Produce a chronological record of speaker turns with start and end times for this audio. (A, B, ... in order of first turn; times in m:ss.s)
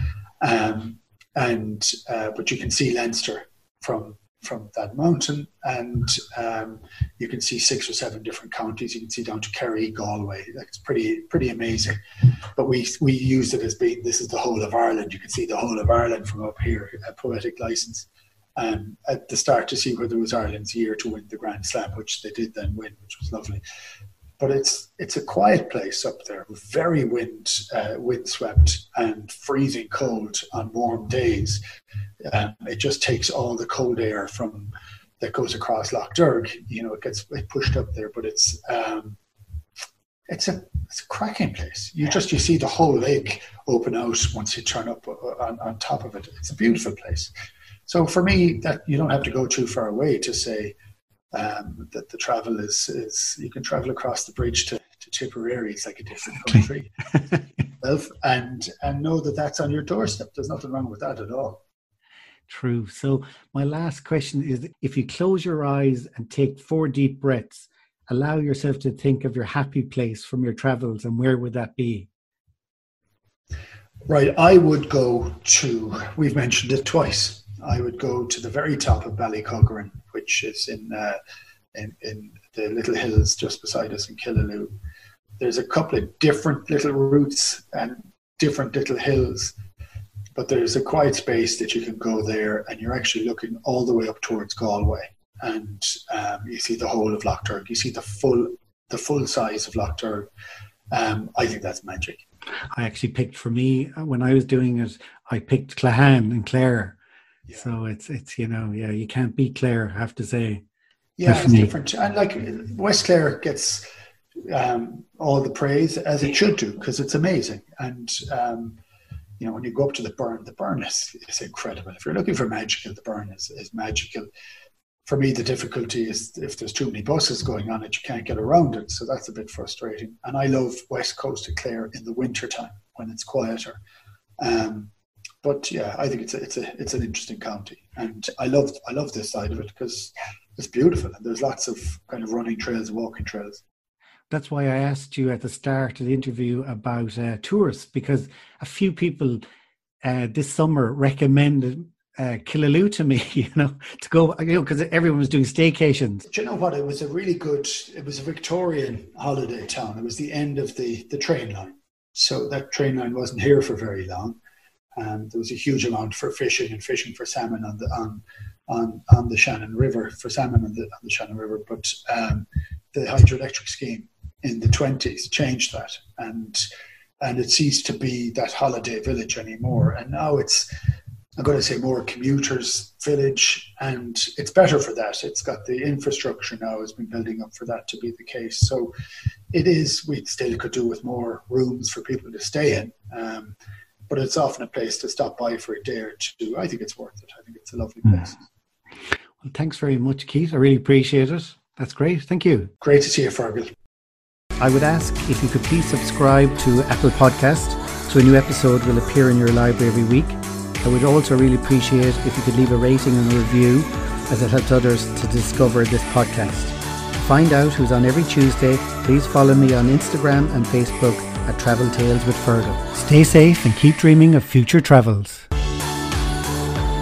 0:00.4-0:23.6 A
0:24.4-0:31.6 A
0:32.2-0:39.2 A
0:40.3-0:47.3 A
0:47.9-0:50.7 A
0:51.3-0:57.0 A
0:57.7-1:01.6 A
1:02.5-1:12.1 B
1:14.1-1:21.2 A
1:21.7-1:24.7 A
1:25.4-1:29.6 A
1:30.4-1:40.3 A
1:40.9-1:42.2 A
1:42.7-1:47.0 B
1:47.5-1:47.7 A
1:47.5-1:50.6 B
1:51.2-1:53.9 A
1:51.2-1:51.7 B
1:54.4-1:58.8 A
1:59.4-2:04.3 A
2:05.0-2:13.8 A
2:14.4-2:14.9 A
2:15.4-2:23.6 A
2:24.3-2:29.4 B
2:30.0-2:36.2 B
2:36.3-2:44.4 A
2:45.0-2:56.7 A
2:57.2-3:00.7 A
3:01.4-3:08.9 A
3:09.5-3:13.6 A
3:14.1-3:18.5 A
3:19.4-3:22.7 B
3:22.8-3:23.7 A
3:24.6-3:45.5 B